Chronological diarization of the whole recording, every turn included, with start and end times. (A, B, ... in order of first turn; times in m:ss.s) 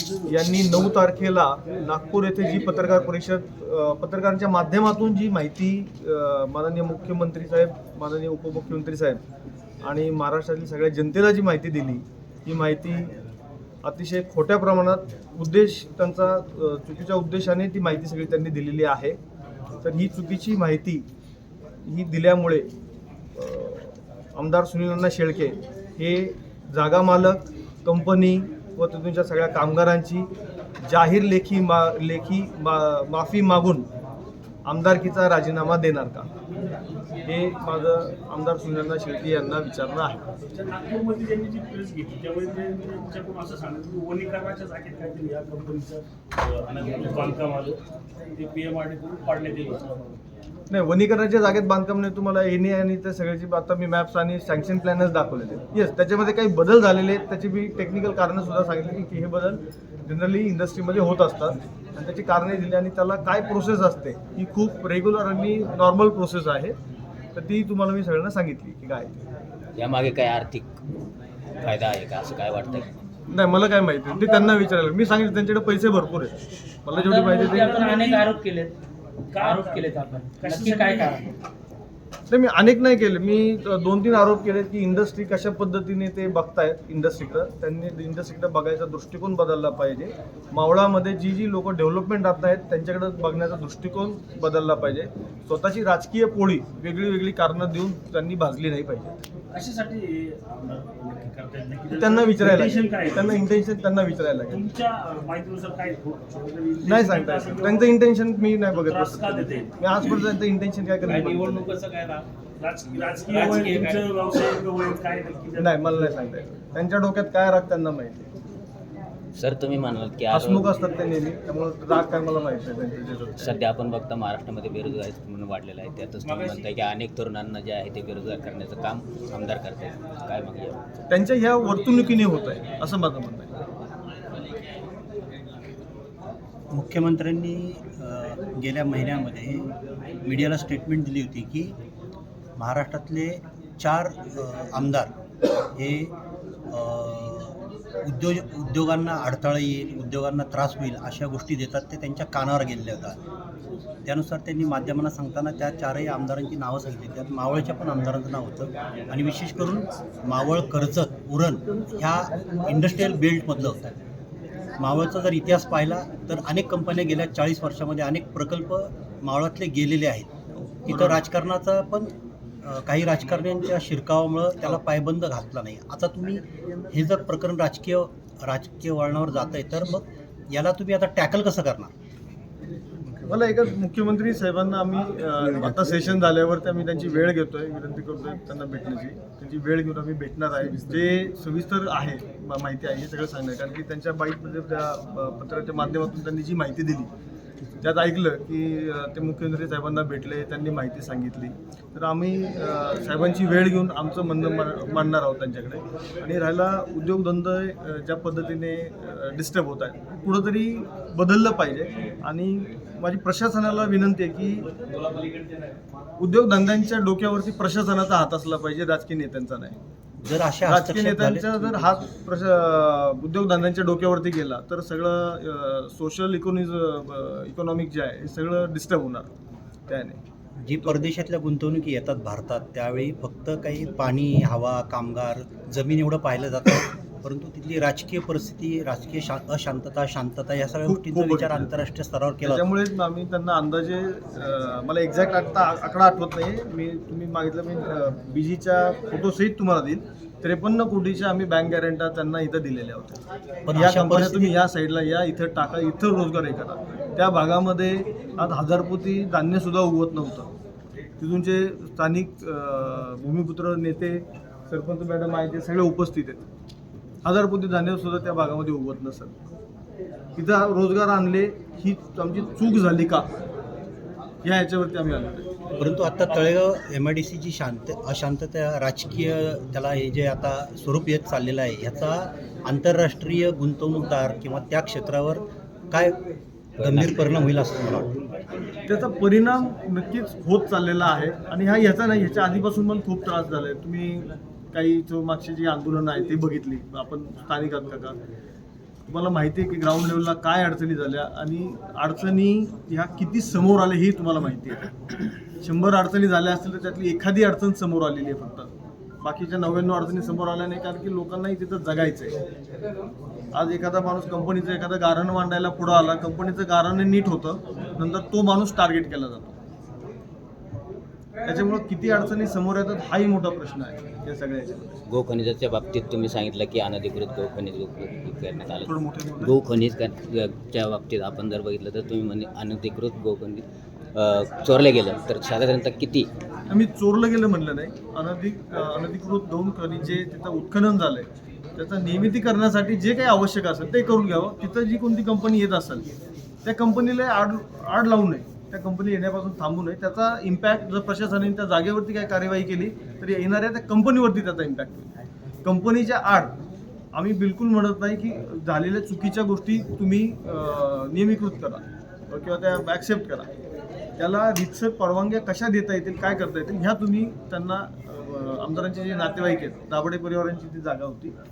0:00.2-0:09.2 A
0:09.8-0:13.2 A
0:13.8-0:19.2 A
0:19.8-0:21.0 A
0:21.8-0:22.7 A
0:23.4-0:30.3 A
0:30.9-0:33.9 A
0:34.6-0:36.3 A
0:37.3-0:40.2 A
0:40.5-0:47.8 B
0:48.4-0:50.2 B
0:50.7-1:06.8 A
1:07.4-1:09.2 A
1:09.8-1:10.7 C
1:11.6-1:12.9 C
1:13.3-1:16.3 A
1:16.8-1:17.9 A
1:16.9-1:18.7 D
1:17.2-1:18.4 B
1:19.3-1:21.3 B
1:19.3-1:21.3 D
1:22.3-1:39.2 A
1:39.5-1:43.5 B
1:41.9-1:44.6 A
1:44.5-1:48.0 B
1:46.8-1:51.7 A
1:48.7-1:49.7 B
1:51.0-1:52.3 D
1:52.6-1:56.2 B
1:53.3-1:54.2 D
1:55.6-1:58.3 A
1:59.4-2:00.8 C
2:00.3-2:03.5 A
2:03.4-2:10.8 C
2:06.3-2:06.6 D
2:11.1-2:13.5 A
2:16.7-2:19.7 E
2:20.2-2:21.8 E
2:22.6-2:25.1 E
2:25.8-2:26.1 E
2:26.7-2:33.2 E
2:34.0-2:44.0 E
2:44.8-2:50.3 E
2:50.6-2:51.2 A
2:50.8-2:52.1 E
2:52.6-3:01.9 E
3:03.2-3:17.1 A
3:17.8-3:34.7 A
3:36.2-3:39.8 A
3:40.2-3:41.7 E
3:40.6-3:49.3 A
3:49.9-3:50.2 A
3:50.6-4:02.7 E
4:00.8-4:01.7 A
4:02.4-4:20.5 A
4:13.7-4:14.5 E
4:21.2-4:26.4 A
4:27.2-4:29.4 A
4:30.4-4:33.3 A
4:34.4-4:35.5 A
4:35.8-4:46.2 E
4:46.8-4:47.6 C
4:46.8-4:48.1 E
4:48.8-4:58.2 A
4:59.1-5:04.9 A
5:05.5-5:08.7 A
5:09.2-5:12.4 A
5:13.5-5:19.6 A
5:21.5-5:25.0 A
5:25.1-5:33.6 C
5:28.8-5:29.6 A
5:34.2-5:36.3 C
5:36.7-5:46.0 A
5:46.6-5:55.1 A
5:55.6-5:56.5 A
5:57.1-6:03.5 A
6:04.2-6:11.4 A